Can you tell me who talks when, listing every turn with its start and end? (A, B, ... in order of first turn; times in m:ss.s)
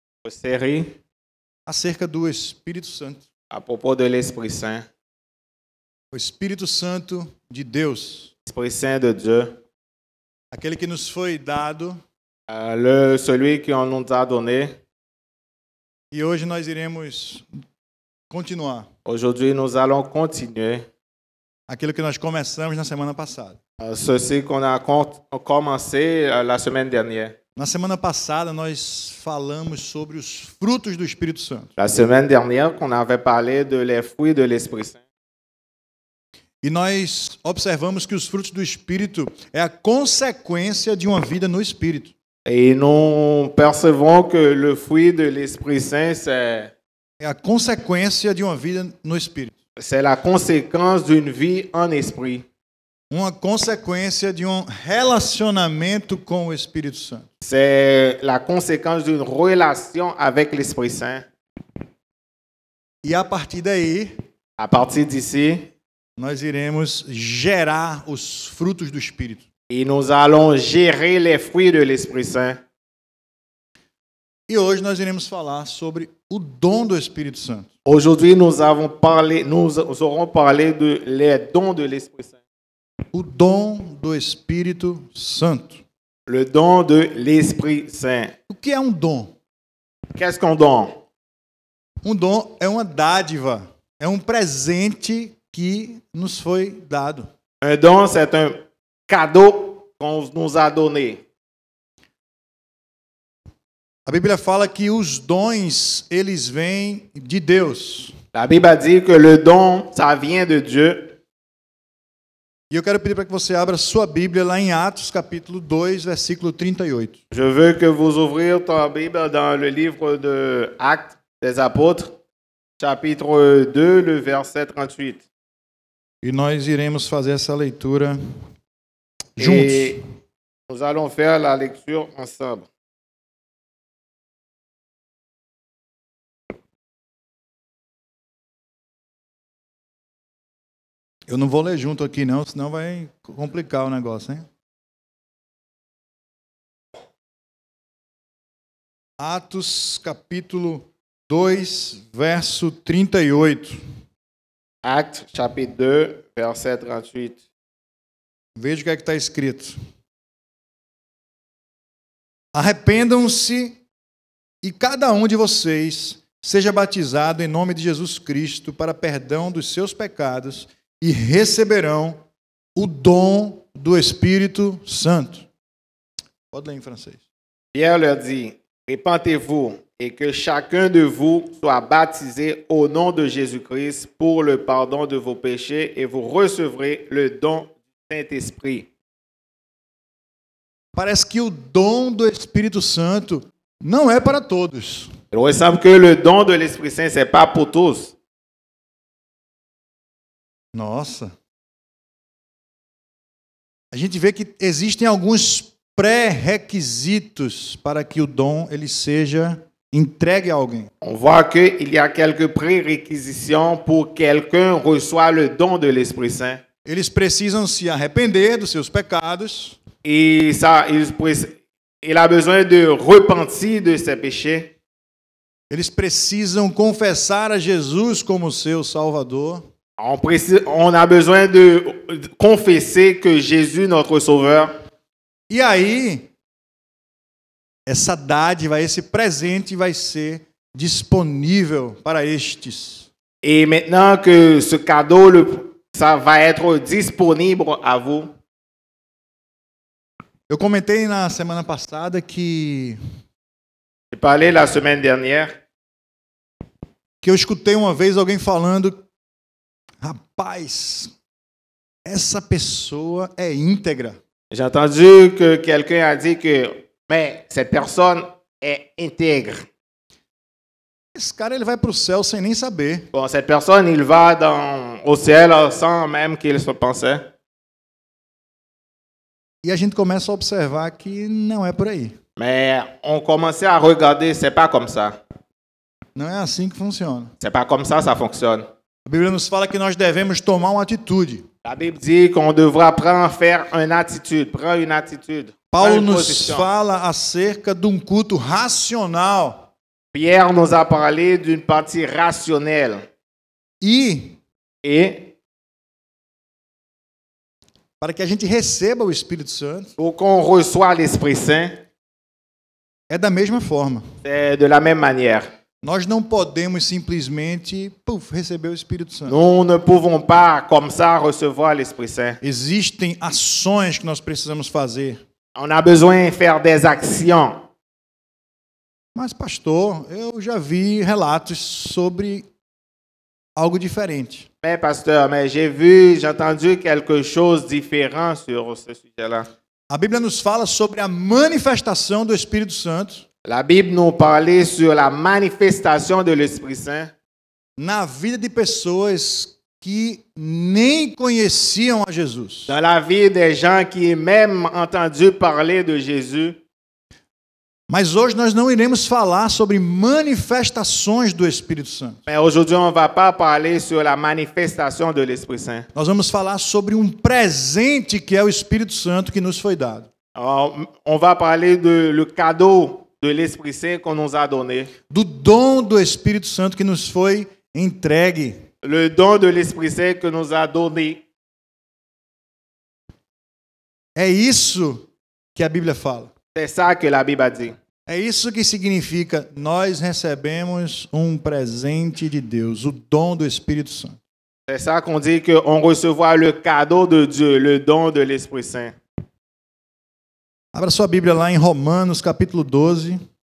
0:00.2-0:01.0 A
0:01.7-0:03.2 B
0:03.5-0:04.9 A
0:06.1-0:08.3 B
0:08.5-0:09.6 A
0:10.5-0:12.0 B
0:12.5-0:14.8 A
0:16.1-0:17.5 B
0:18.3-0:18.9 B
0:19.1-0:20.9 A
0:21.7-0:23.6 B
0:23.8-0:27.4 A
0:27.6-0:31.7 B
0:31.8-0:35.0 A
0:36.6-0:42.1 B
0:42.5-0:46.7 A
0:47.2-0:49.6 B
0:49.8-0:52.4 A
0:53.1-0:57.3 B
0:57.4-1:01.3 A
1:03.0-1:04.1 B
1:04.6-1:05.7 A
1:06.2-1:09.5 B
1:09.7-1:12.6 A
1:14.5-1:17.7 B
1:17.9-1:22.4 A
1:23.1-1:25.8 B
1:26.3-1:28.3 A
1:28.5-1:29.3 B
1:30.2-1:31.0 A
1:32.0-1:37.3 B
1:37.6-1:41.2 A
1:44.1-1:48.1 B
1:48.3-1:51.2 A
1:52.7-1:57.2 B
1:57.3-2:02.2 A
2:02.8-2:05.2 A
2:06.2-2:08.2 B
2:09.4-2:10.0 B
2:09.4-2:10.0 A
2:10.7-2:12.7 A
2:21.3-2:24.5 B
2:29.2-2:33.8 B
2:34.8-2:37.4 A
2:38.6-2:39.8 B
2:42.5-2:43.8 B
2:44.6-2:52.2 B
2:52.8-2:55.5 B
2:56.5-2:57.2 B
2:57.7-3:08.9 A
3:11.0-3:15.1 B
3:15.3-3:18.1 A
3:20.7-3:21.3 B
3:23.9-3:30.9 B
3:31.0-3:36.6 A
3:36.8-3:39.8 B
3:40.0-3:44.7 A
3:45.7-3:49.7 B
3:50.0-3:54.7 A
3:55.5-3:56.3 B
3:57.9-4:03.1 B
4:03.4-4:08.3 A
4:10.5-4:13.0 B
4:14.1-4:15.6 A
4:17.2-4:19.0 B
4:20.0-4:21.1 B
4:22.0-4:24.2 B
4:24.5-4:29.7 A
4:31.1-4:33.1 B
4:33.1-4:37.3 A
4:39.6-4:42.2 B
4:42.4-4:45.2 A
4:46.2-4:47.3 B
4:47.4-4:48.7 A
4:49.1-4:51.5 B
4:51.6-4:56.7 A
4:55.7-4:59.7 B
5:00.1-5:03.1 A
5:03.8-5:04.4 B
5:04.8-5:05.3 A
5:08.0-5:09.9 B
5:10.0-5:11.8 A
5:13.1-5:14.0 B
5:14.2-5:15.5 A
5:15.8-5:19.4 B
5:19.3-5:22.4 A
5:22.4-5:25.2 B
5:25.6-5:27.7 A
5:29.2-5:32.5 B
5:33.6-5:34.5 B
5:34.6-5:39.5 A
5:39.9-5:43.2 B
5:43.4-5:47.1 A
5:47.8-5:52.8 B
5:52.7-5:56.6 A
5:57.9-6:02.2 B
6:02.3-6:05.9 A
6:06.0-6:10.1 B
6:10.4-6:14.9 A
6:15.1-6:18.6 B
6:18.8-6:21.2 A
6:24.2-6:26.3 B
6:26.6-6:27.8 A
6:28.1-6:34.2 B
6:34.7-6:39.0 A
6:40.7-6:43.2 B